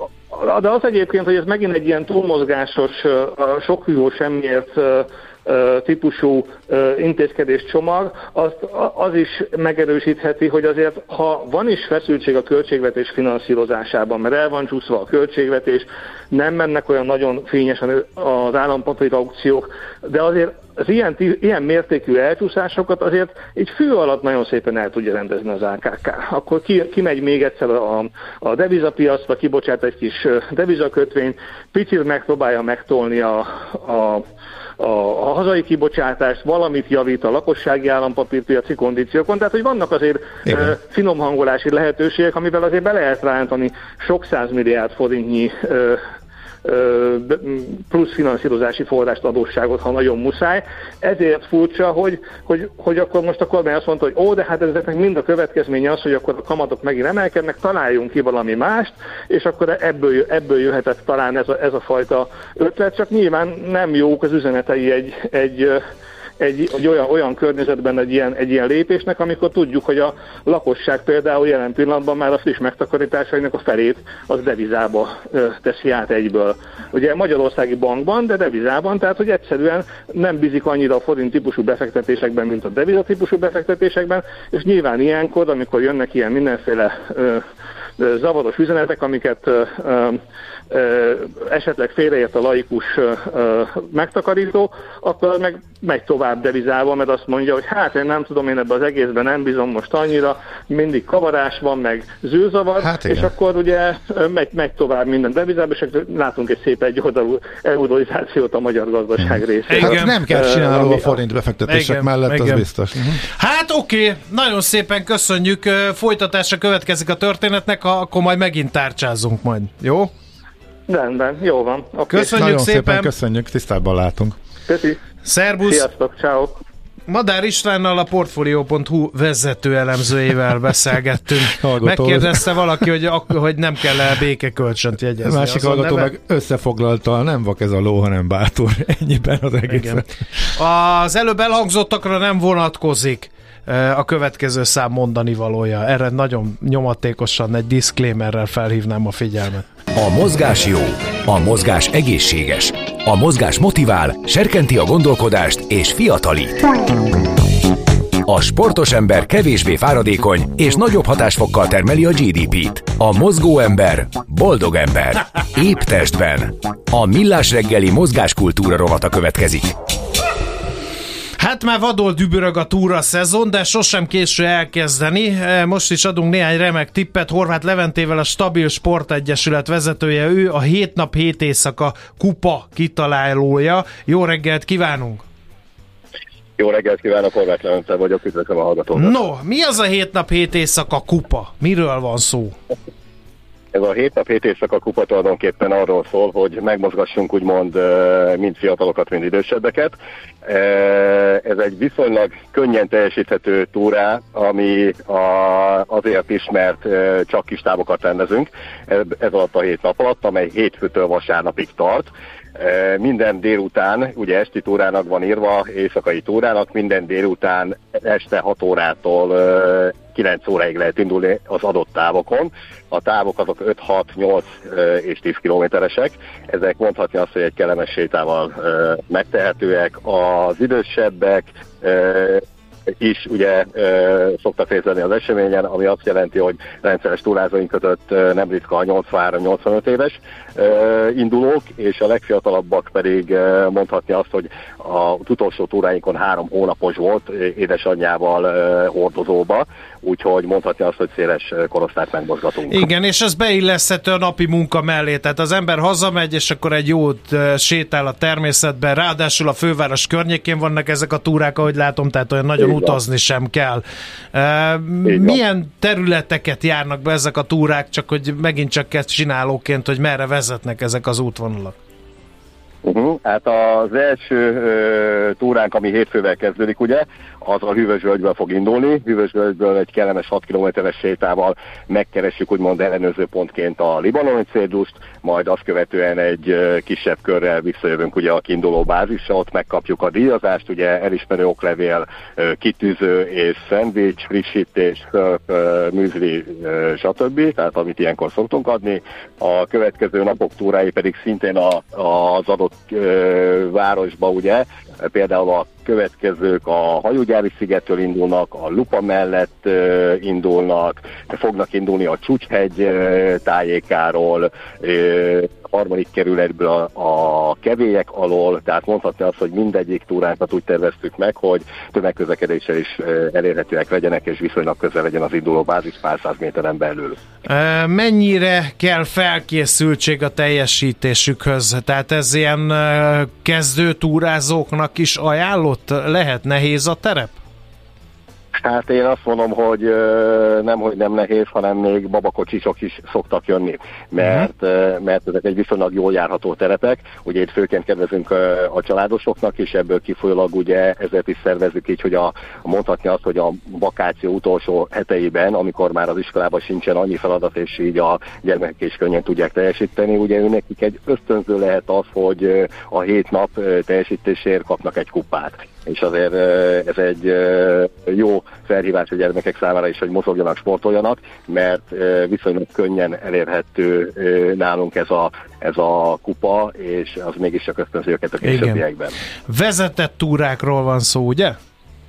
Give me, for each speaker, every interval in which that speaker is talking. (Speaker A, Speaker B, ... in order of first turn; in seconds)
Speaker A: 0.3-34.3, 34.8-46.0, 46.6-65.8, 66.4-87.5, 88.0-90.2, 90.7-111.2, 120.9-122.4, 124.7-125.0, 125.7-126.5
Speaker B: 40.5-40.8, 102.8-103.3, 109.2-113.2, 122.1-124.3, 131.4-132.6, 135.2-140.5
Speaker C: 109.7-110.2, 111.7-112.7, 113.2-120.1, 122.1-123.1, 125.2-125.9, 127.1-136.1, 139.7-140.0, 140.6-149.7, 171.4-185.2, 188.9-192.6, 252.7-271.8, 327.5-337.4, 378.4-378.8, 379.5-381.6
Speaker D: 149.9-156.7, 158.3-169.7
Speaker E: 186.6-189.2, 193.7-232.4, 233.0-252.9, 262.6-263.0, 265.1-265.4, 272.8-327.2, 338.6-379.1